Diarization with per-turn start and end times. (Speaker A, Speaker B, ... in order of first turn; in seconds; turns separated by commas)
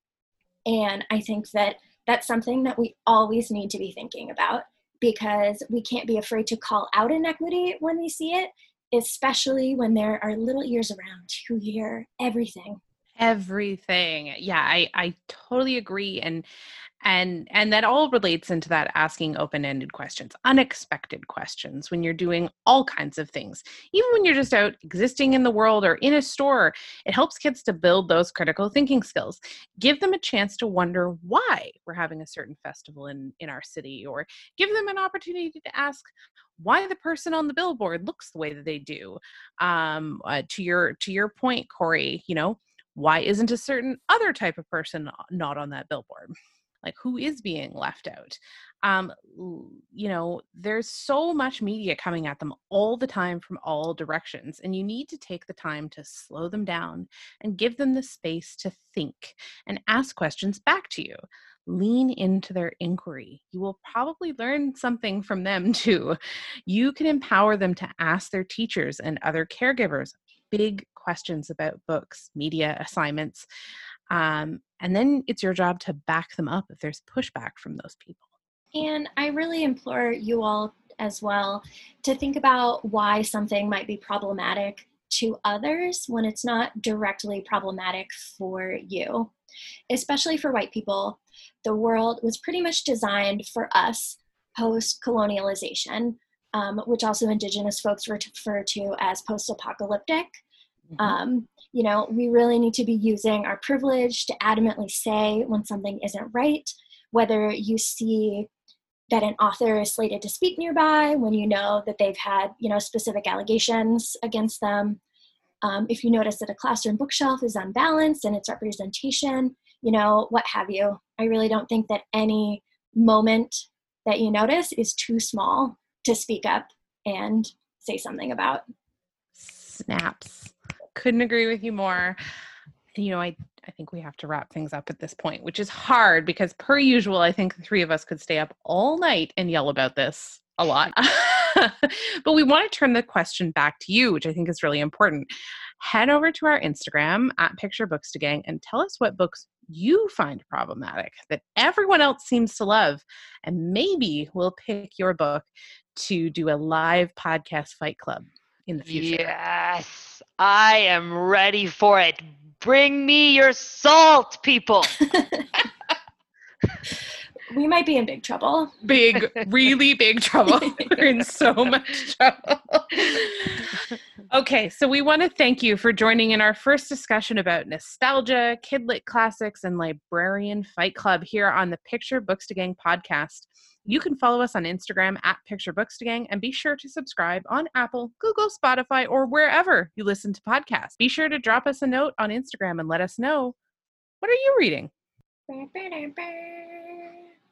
Speaker A: 0.7-12.8, Speaker B: 13.2-16.4, Speaker B: 17.0-73.5, Speaker B: 74.1-78.2, Speaker A: 78.7-89.3, Speaker A: 89.9-100.4, Speaker A: 101.0-108.5, Speaker A: 109.1-115.0, Speaker A: 115.6-128.6, Speaker B: 129.3-132.2, Speaker B: 132.9-159.3, Speaker C: 158.8-164.9, Speaker A: 165.1-165.4, Speaker A: 167.5-168.7, Speaker B: 168.8-193.5, Speaker B: 194.2-194.9, Speaker A: 195.5-197.1